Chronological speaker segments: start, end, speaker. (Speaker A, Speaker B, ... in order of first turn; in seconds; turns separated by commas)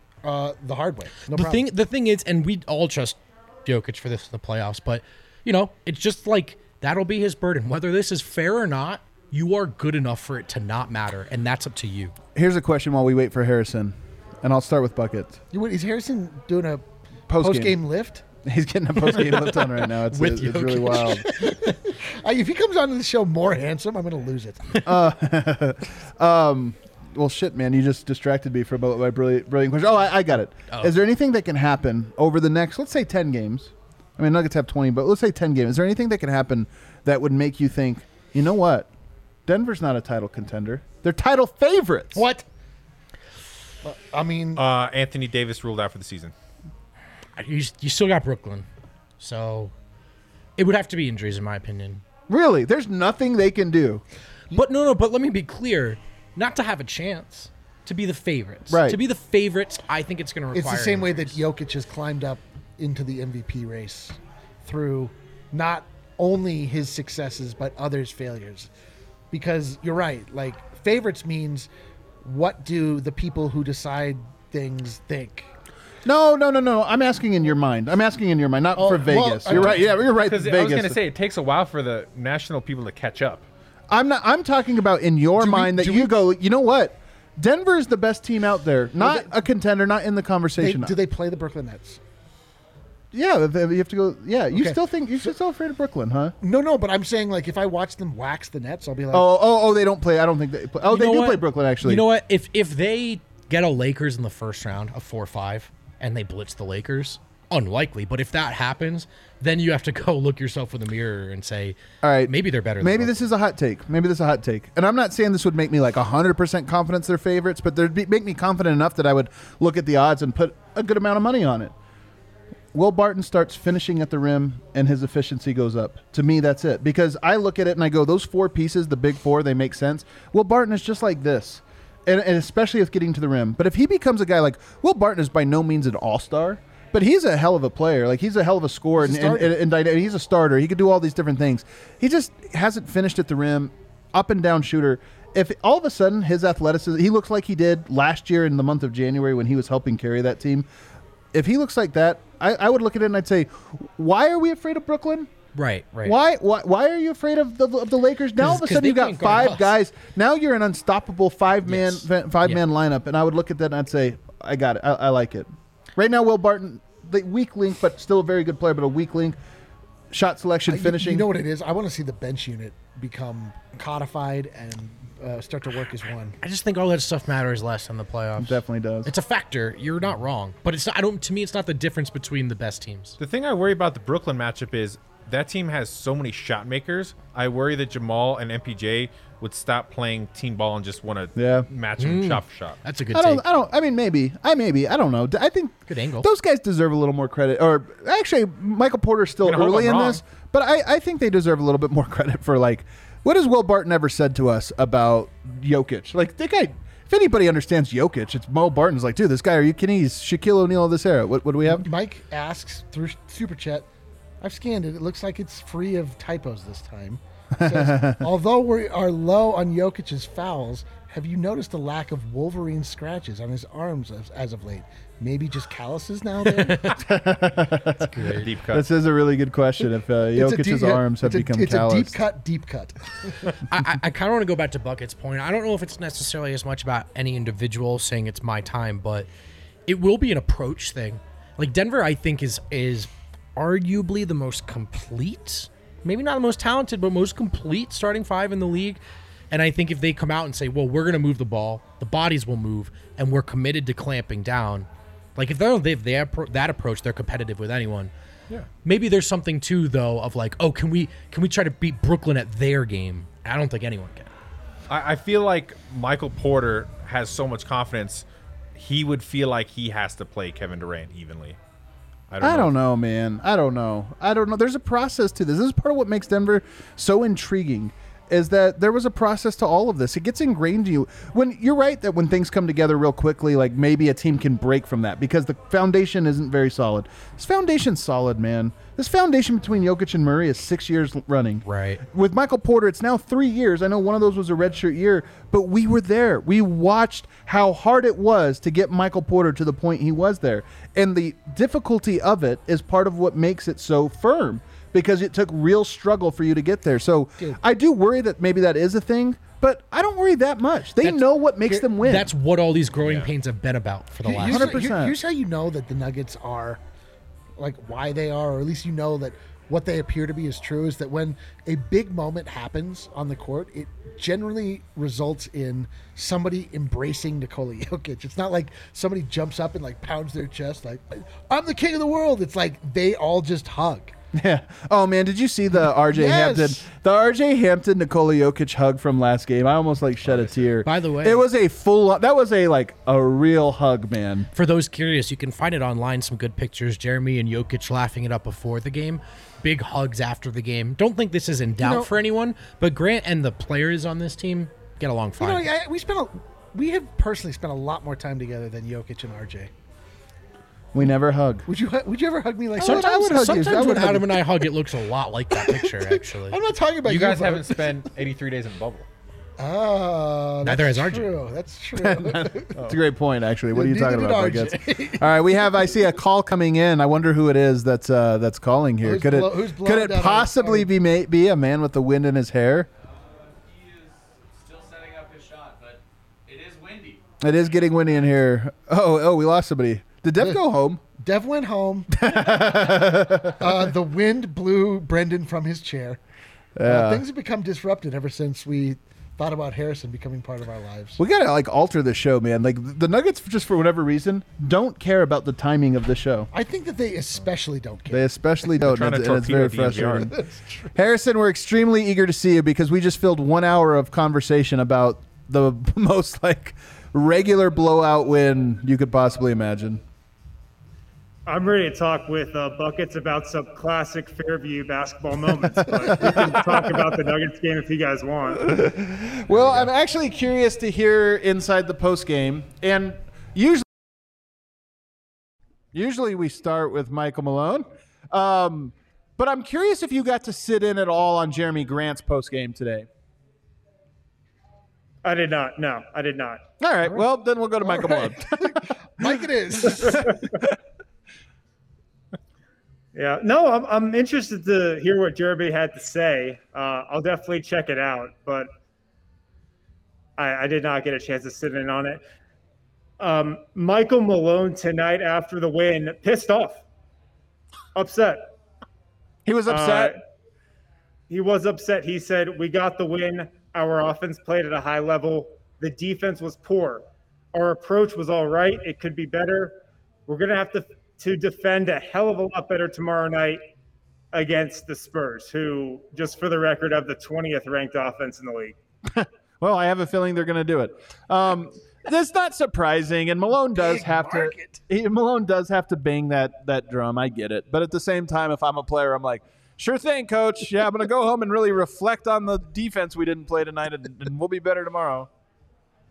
Speaker A: 0.2-1.6, Speaker B: 1.3-12.1, Speaker C: 12.3-15.4, Speaker A: 15.5-16.8, Speaker C: 17.3-17.8, Speaker A: 17.4-18.2, Speaker C: 18.4-21.3, Speaker B: 19.1-21.7, Speaker A: 21.4-24.8, Speaker C: 24.8-38.9, Speaker C: 39.5-42.2, Speaker A: 42.1-42.4, Speaker A: 43.8-44.6, Speaker D: 44.5-46.3, Speaker B: 47.4-48.6, Speaker B: 49.2-49.7, Speaker B: 50.6-52.0, Speaker C: 52.3-54.0, Speaker B: 54.5-61.4, Speaker C: 58.7-59.0, Speaker A: 60.5-68.7, Speaker A: 69.3-71.7, Speaker A: 72.2-75.5, Speaker C: 76.0-81.0, Speaker A: 78.7-79.9, Speaker D: 79.5-83.4, Speaker C: 83.9-91.0, Speaker A: 85.4-86.1, Speaker A: 89.0-89.2, Speaker A: 90.6-92.0, Speaker C: 93.1-96.3, Speaker A: 94.5-94.8, Speaker A: 96.4-99.3, Speaker C: 99.1-102.1, Speaker B: 100.9-113.2, Speaker C: 112.0-121.7, Speaker C: 122.7-150.7, Speaker A: 139.0-139.5, Speaker C: 151.3-155.3, Speaker B: 155.5-156.2, Speaker C: 156.0-169.4, Speaker B: 158.4-159.7, Speaker B: 161.7-162.6, Speaker C: 170.1-171.3, Speaker A: 170.7-176.4, Speaker B: 176.4-183.2, Speaker C: 178.4-179.1, Speaker D: 183.2-192.8, Speaker C: 191.3-191.7, Speaker B: 192.0-193.4, Speaker C: 193.1-211.9, Speaker B: 195.9-196.3, Speaker D: 199.4-200.2, Speaker A: 211.6-213.9, Speaker A: 214.4-226.9, Speaker C: 217.5-218.2, Speaker B: 226.5-227.0, Speaker C: 226.9-232.2, Speaker B: 228.1-228.4, Speaker D: 228.4-228.8, Speaker A: 230.3-233.4, Speaker B: 233.7-239.3, Speaker B: 239.9-249.0, Speaker B: 249.5-258.1, Speaker B: 258.8-264.3, Speaker D: 264.9-271.6, Speaker D: 272.3-272.7, Speaker C: 272.4-312.3, Speaker B: 291.6-292.0, Speaker B: 311.0-311.2, Speaker B: 311.9-314.7, Speaker D: 313.0-313.3, Speaker A: 314.2-316.8, Speaker C: 314.4-315.1, Speaker A: 317.6-334.1, Speaker C: 334.3-344.5, Speaker A: 335.8-336.9, Speaker D: 340.3-340.5, Speaker B: 340.8-341.4, Speaker B: 344.5-355.7, Speaker A: 351.8-352.1, Speaker A: 355.4-359.7, Speaker C: 360.9-361.6, Speaker A: 361.7-364.1, Speaker C: 362.8-364.3, Speaker B: 362.8-366.6, Speaker A: 365.6-367.9, Speaker D: 367.0-369.1, Speaker A: 369.6-372.8, Speaker B: 370.6-371.3, Speaker C: 372.0-382.9, Speaker A: 373.7-375.6, Speaker A: 379.0-380.9, Speaker E: 383.0-387.2, Speaker C: 387.4-391.0, Speaker A: 391.2-392.9, Speaker C: 392.1-393.9, Speaker A: 393.5-396.2, Speaker C: 396.8-397.2, Speaker A: 396.8-401.2, Speaker C: 401.2-406.5, Speaker A: 406.5-408.3, Speaker C: 408.1-410.3, Speaker D: 408.8-410.3, Speaker A: 410.3-410.9, Speaker C: 410.9-420.0, Speaker F: 421.5-428.7, Speaker C: 425.8-427.0, Speaker C: 428.6-433.9, Speaker D: 429.6-429.9, Speaker C: 435.9-443.1, Speaker F: 445.2-446.6, Speaker C: 446.8-449.4, Speaker A: 447.8-450.3, Speaker F: 450.0-450.6, Speaker C: 450.0-450.7, Speaker F: 453.1-458.7, Speaker F: 460.4-462.2, Speaker F: 463.2-466.8, Speaker F: 467.9-468.5, Speaker C: 469.4-470.1, Speaker F: 469.7-470.2, Speaker F: 471.3-483.6, Speaker F: 484.3-488.8, Speaker C: 489.1-505.3, Speaker A: 493.7-494.8